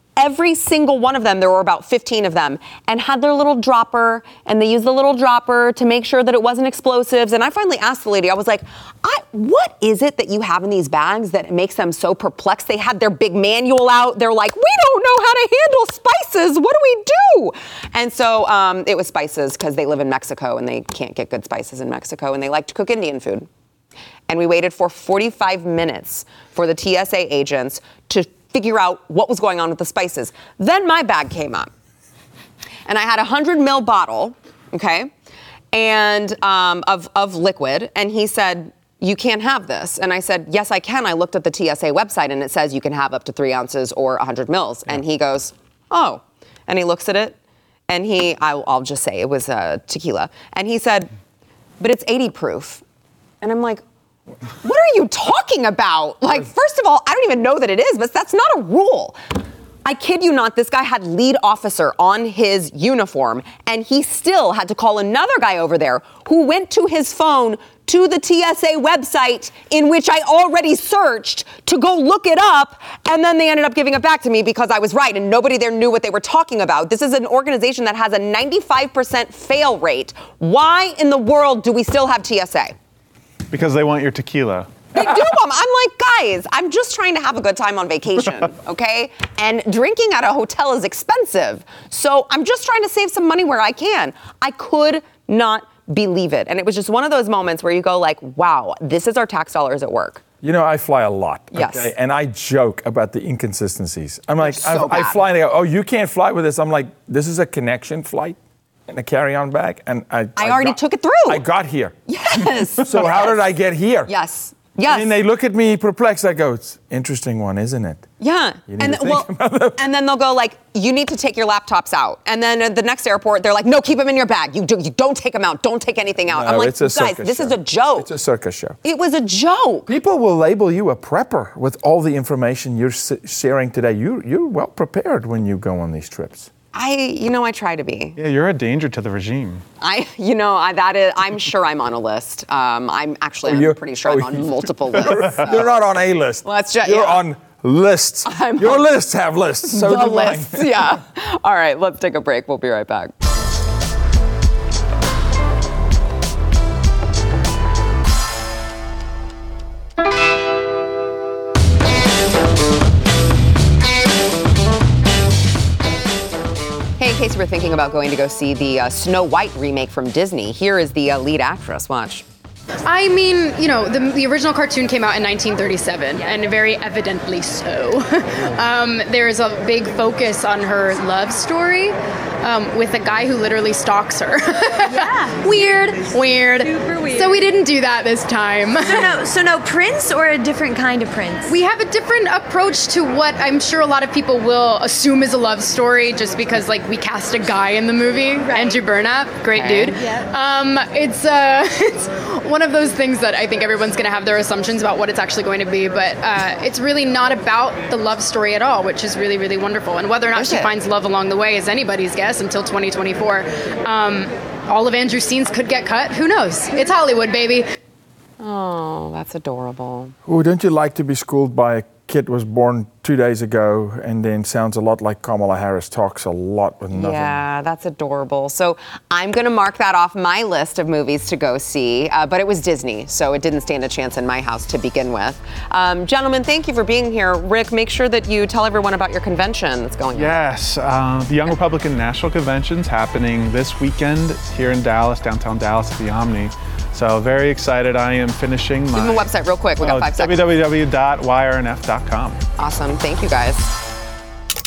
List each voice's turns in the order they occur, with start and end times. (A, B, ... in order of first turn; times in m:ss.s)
0:00.2-0:23.5 A
0:24.3-0:31.7 A
0:32.9-0:35.1 A
0:35.7-0:47.4 A
0:47.9-0:51.1 A
0:51.8-0:52.8 A
0:53.4-0:53.8 A
0:54.6-0:59.2 A
0:59.8-1:22.8 A
1:23.5-1:24.7 B
1:25.0-1:40.2 A
1:40.4-1:52.0 C
1:41.5-1:41.9 A
1:44.4-1:45.2 A
1:50.4-1:51.4 A
1:52.1-1:53.4 A
1:52.8-1:54.1 C
1:54.1-1:55.1 A
1:54.9-1:58.1 C
1:58.2-2:08.1 A
1:58.7-1:59.8 C
2:06.3-2:08.8 C
2:08.8-2:09.9 A
2:09.9-2:16.5 C
2:16.7-2:18.2 A
2:18.2-2:19.6 B
2:19.8-2:25.6 A
2:23.4-2:30.7 C
2:26.4-2:27.2 A
2:28.2-2:28.9 A
2:29.7-2:33.1 A
2:47.0-2:52.2 A
2:52.8-3:09.1 D
3:04.9-3:05.4 E
3:06.6-3:07.5 E
3:08.8-3:11.6 E
3:11.5-3:37.7 D
3:18.5-3:18.8 E
3:19.6-3:19.9 A
3:30.3-3:30.7 A
3:38.4-3:40.1 A
3:40.2-3:47.4 C
3:46.9-4:00.4 A
4:00.1-4:12.4 B
4:09.0-4:10.5 A
4:12.6-4:13.7 A